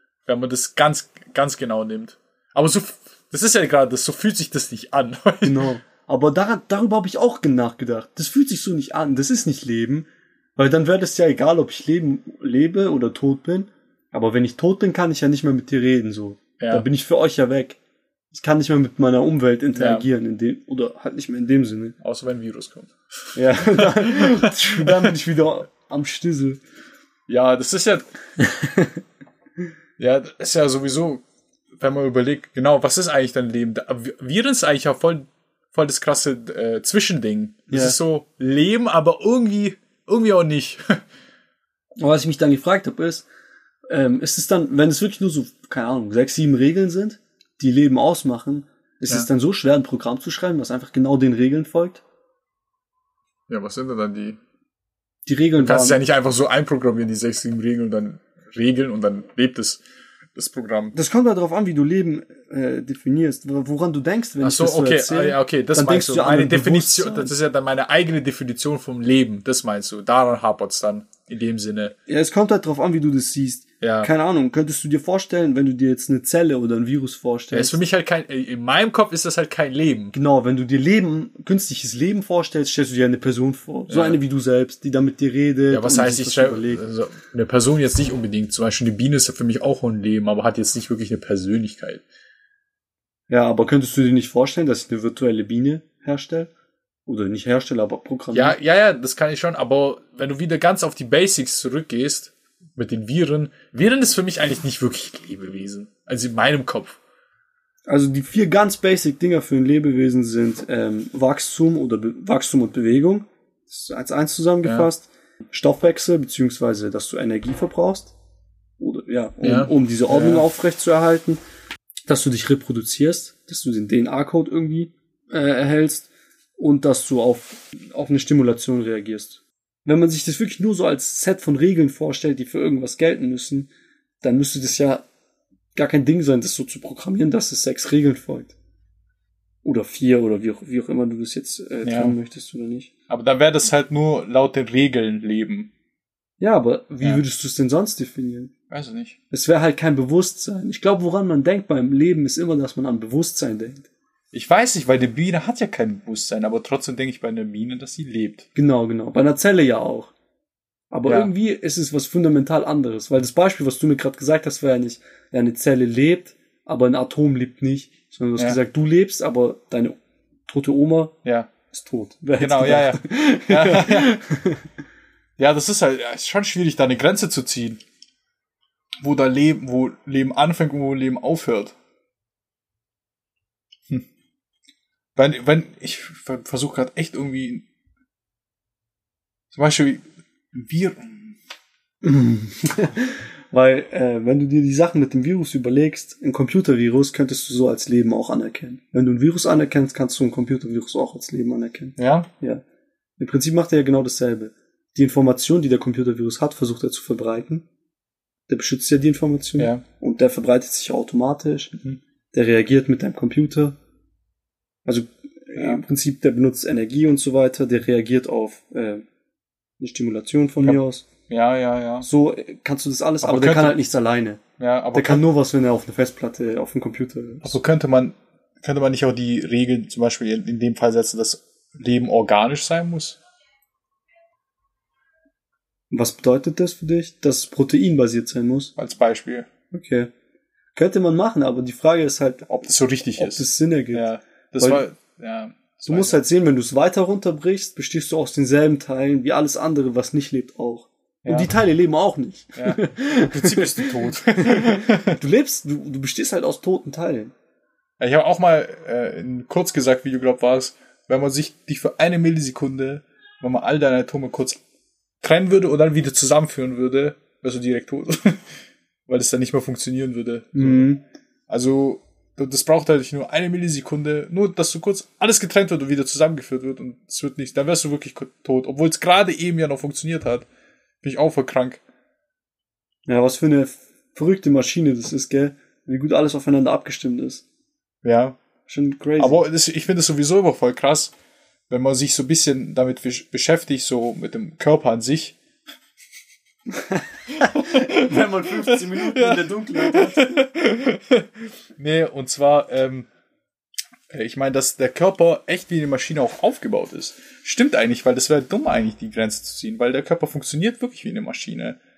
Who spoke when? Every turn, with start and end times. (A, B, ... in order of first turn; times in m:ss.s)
0:00.3-0:05.7 A
0:05.4-0:17.8 B
0:16.6-0:16.8 A
0:18.3-0:22.0 B
0:19.8-0:20.1 A
0:22.0-0:25.1 A
0:23.4-0:26.6 B
0:27.3-0:28.0 A
0:28.4-0:29.0 B
0:30.0-0:31.2 A
0:31.8-0:41.0 A
0:37.7-0:38.0 B
0:42.0-0:43.3 B
0:43.9-0:52.0 B
0:53.5-0:54.4 A
0:55.3-0:56.0 B
0:55.6-0:59.8 A
1:00.4-1:01.0 A
1:01.0-1:07.3 B
1:04.4-1:11.9 A
1:12.1-1:17.8 B
1:13.8-1:14.1 A
1:17.5-1:20.2 A
1:20.2-1:26.8 B
1:23.9-1:24.2 A
1:25.7-1:32.0 A
1:33.3-1:36.5 B
1:37.1-1:38.6 B
1:38.3-1:47.0 A
1:47.9-1:58.1 B
1:58.8-2:01.4 B
1:59.4-2:00.4 A
2:02.1-2:13.7 B
2:14.2-2:15.0 B
2:15.8-2:18.5 B
2:19.6-2:22.9 B
2:21.8-2:22.2 A
2:23.1-2:25.7 A
2:26.4-2:28.5 B
2:28.7-2:29.2 A
2:29.3-2:33.9 B
2:34.3-2:38.5 A
2:38.6-2:40.1 B
2:40.9-2:51.1 B
2:41.1-2:41.3 A
2:51.2-2:51.5 A
2:51.7-2:54.7 B
2:52.4-2:54.1 A
2:55.4-2:57.8 A
2:59.0-3:01.8 A
3:05.2-3:07.7 A
3:09.5-3:11.4 A
3:12.0-3:22.6 B
3:22.0-3:22.3 A
3:23.2-3:27.6 B
3:28.5-3:31.7 B
3:29.6-3:29.8 A
3:32.3-3:33.8 B
3:34.8-3:39.0 B
3:35.6-3:35.8 A
3:39.8-3:41.1 B
3:40.6-3:42.1 A
3:42.0-3:44.4 B
3:43.2-3:43.8 A
3:44.6-3:45.2 A
3:44.9-3:47.6 B
3:47.4-3:53.2 A
3:55.9-3:58.7 B
3:58.8-3:59.5 A
3:59.7-4:00.1 B
4:00.8-4:04.8 B
4:02.6-4:06.2 A
4:05.9-4:17.3 B
4:11.2-4:11.5 A
4:12.6-4:15.2 A
4:18.0-4:24.6 A
4:25.2-4:28.6 A
4:29.1-4:30.9 A
4:30.6-4:31.0 B
4:31.5-4:40.5 A
4:41.0-4:41.8 A
4:43.1-4:47.4 B
4:48.0-4:48.4 A
4:48.7-4:49.4 B
4:49.2-4:51.1 A
4:51.7-4:55.4 A
4:56.9-5:00.4 B
4:57.4-5:03.1 A
5:04.1-5:11.8 A